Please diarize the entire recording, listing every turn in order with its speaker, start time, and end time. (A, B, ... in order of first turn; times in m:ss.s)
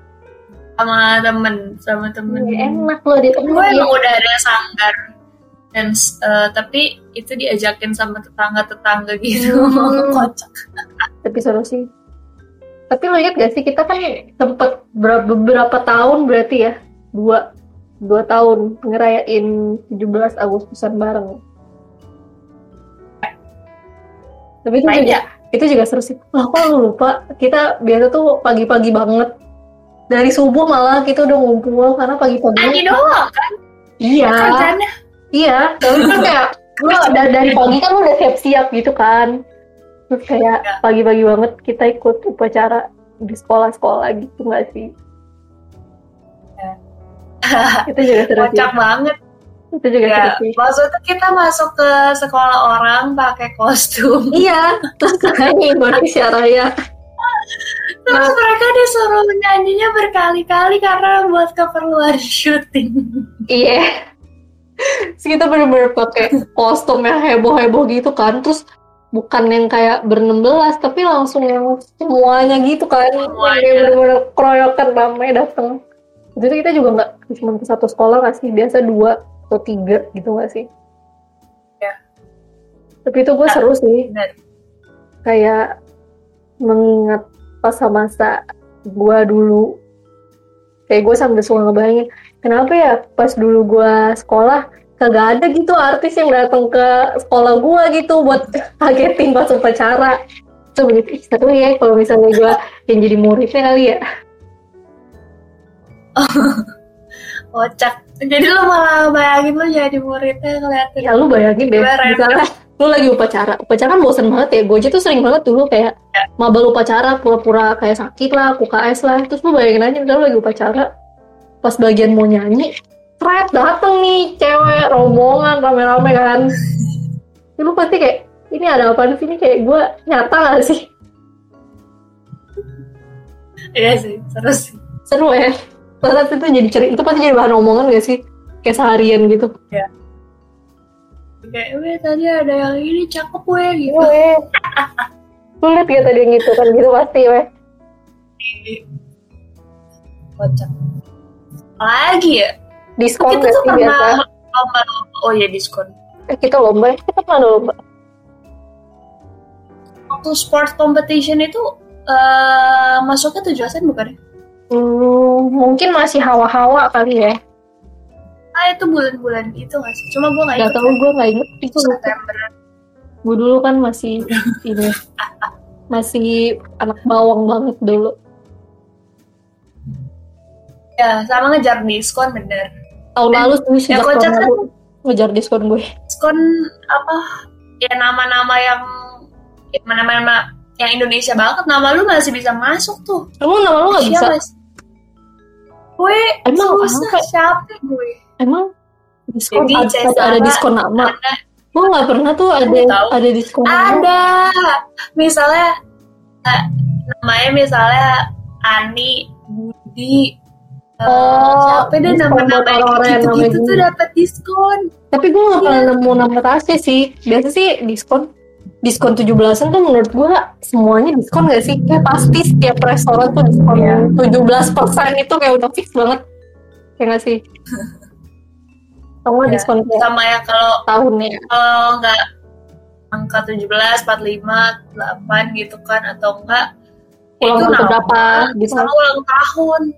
0:00.8-0:05.0 A
0:02.3-0:03.9 B
0:05.7-0:10.5 A
0:09.4-0:10.3 B
0:11.2-0:11.8 B
0:12.9-0:17.4 B
0:18.1-0:21.4 B
0:24.6-0:29.3 B
0:24.9-0:25.2 A
0:30.1-0:32.9 B
0:32.6-0:33.5 A
0:34.0-0:34.7 B
0:34.3-0:34.9 A
0:35.3-0:39.3 B
0:35.9-0:36.3 A
0:36.8-0:37.7 A
0:40.1-0:44.9 B
0:47.5-0:49.1 A
0:47.9-0:48.7 B
0:49.8-0:50.6 B
0:50.0-0:54.4 A
0:54.3-0:56.7 B
0:58.1-1:03.0 A
0:58.1-0:58.4 B
1:03.5-1:03.8 B
1:05.2-1:08.6 B
1:09.2-1:15.7 B
1:13.3-1:14.0 A
1:16.4-1:20.7 B
1:23.1-1:24.1 B
1:23.5-1:24.4 A
1:25.2-1:25.6 B
1:26.7-1:28.4 B
1:28.9-1:29.7 B
1:30.9-1:40.1 B
1:40.8-1:44.0 B
1:46.2-1:46.7 A
1:47.5-1:51.1 A
1:51.0-2:00.9 B
1:51.8-1:52.4 A
2:01.6-2:02.7 B
2:03.2-2:06.5 B
2:07.6-2:10.9 B
2:13.8-2:14.8 A
2:15.1-2:19.5 B
2:21.4-2:24.1 A
2:23.9-2:24.4 B
2:24.8-2:25.0 A
2:25.6-2:27.4 B
2:28.4-2:28.8 A
2:30.4-2:30.7 A
2:31.8-2:32.5 A
2:33.0-2:34.1 B
2:33.3-2:35.9 A
2:36.3-2:37.7 B
2:40.1-2:44.2 A
2:44.7-2:47.4 B
2:48.6-2:51.0 A
2:50.6-2:52.1 B
2:51.8-2:52.5 A
2:53.3-2:54.9 B
2:55.2-2:55.5 A
2:55.9-2:58.1 B
3:01.0-3:02.7 A
3:03.2-3:05.8 B
3:03.3-3:04.6 A
3:06.1-3:06.4 A
3:06.9-3:07.2 A
3:07.8-3:08.8 A
3:09.8-3:13.3 A
3:13.4-3:14.3 B
3:13.9-3:14.5 A
3:16.0-3:18.2 A
3:16.5-3:17.2 B
3:18.4-3:18.7 B
3:19.3-3:21.1 B
3:19.5-3:21.4 A
3:21.8-3:24.1 B
3:22.7-3:25.7 A
3:27.2-3:30.4 A
3:31.0-3:34.8 A
3:31.1-3:33.8 B
3:35.1-3:38.3 B
3:35.6-3:35.9 A
3:38.8-3:46.2 B
3:43.8-3:44.1 A
3:47.0-3:47.4 B
3:49.3-3:50.1 B
3:49.5-3:50.8 A
3:50.9-3:51.4 B
3:51.5-3:52.2 A
3:53.1-3:56.6 A
3:57.4-3:58.9 B
3:57.4-3:59.8 A